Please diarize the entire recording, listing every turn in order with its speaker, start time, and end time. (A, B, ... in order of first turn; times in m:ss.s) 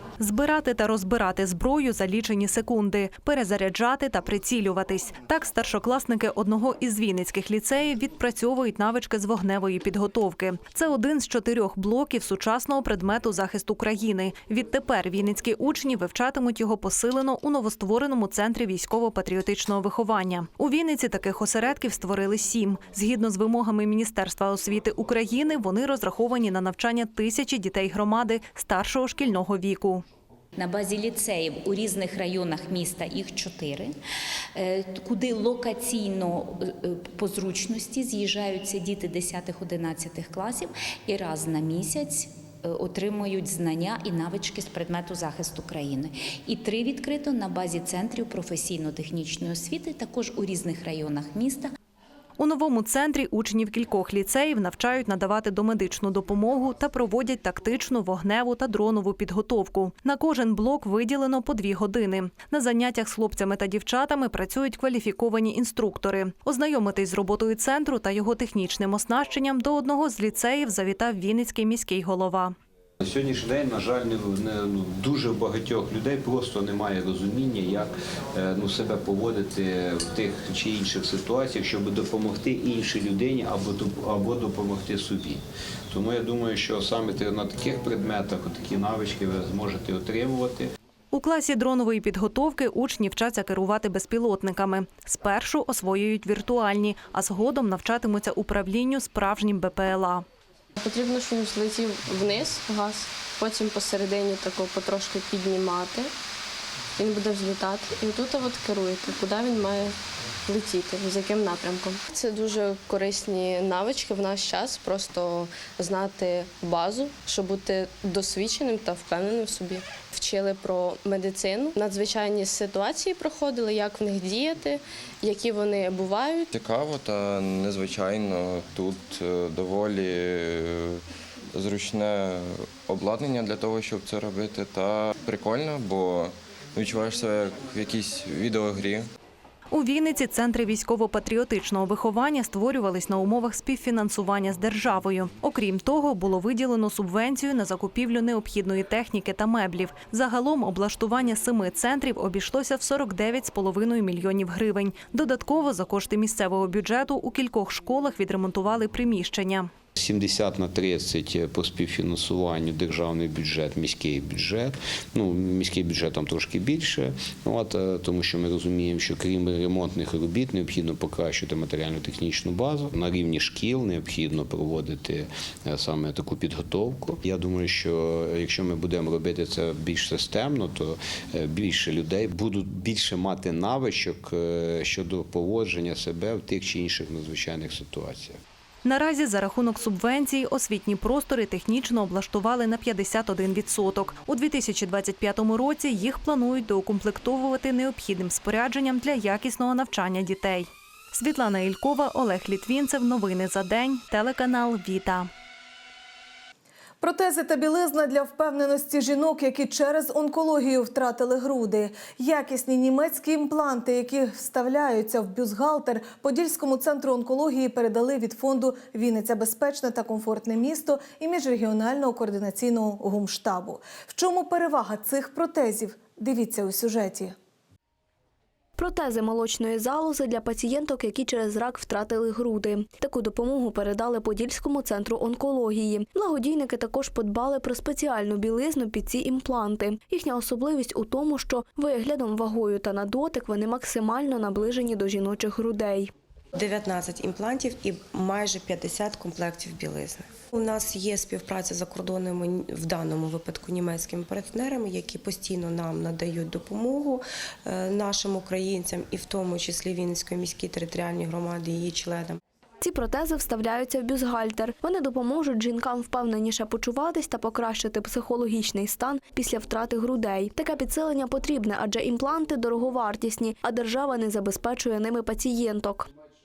0:00.2-0:30.0 A
0:30.6-0:33.9 B
0:34.5-0:51.7 B
0:52.4-1:12.6 A
1:13.0-1:30.7 C
1:31.1-1:40.2 A
1:40.8-1:46.1 D
1:47.0-1:49.9 D
1:50.4-2:06.5 D
2:06.5-2:11.0 E
2:11.5-2:19.0 E
2:19.7-2:39.7 A
2:40.0-3:08.4 C
3:08.8-3:25.3 A
3:27.0-3:47.3 F
3:48.8-4:06.1 G
4:06.5-4:22.4 H
4:22.8-4:36.1 G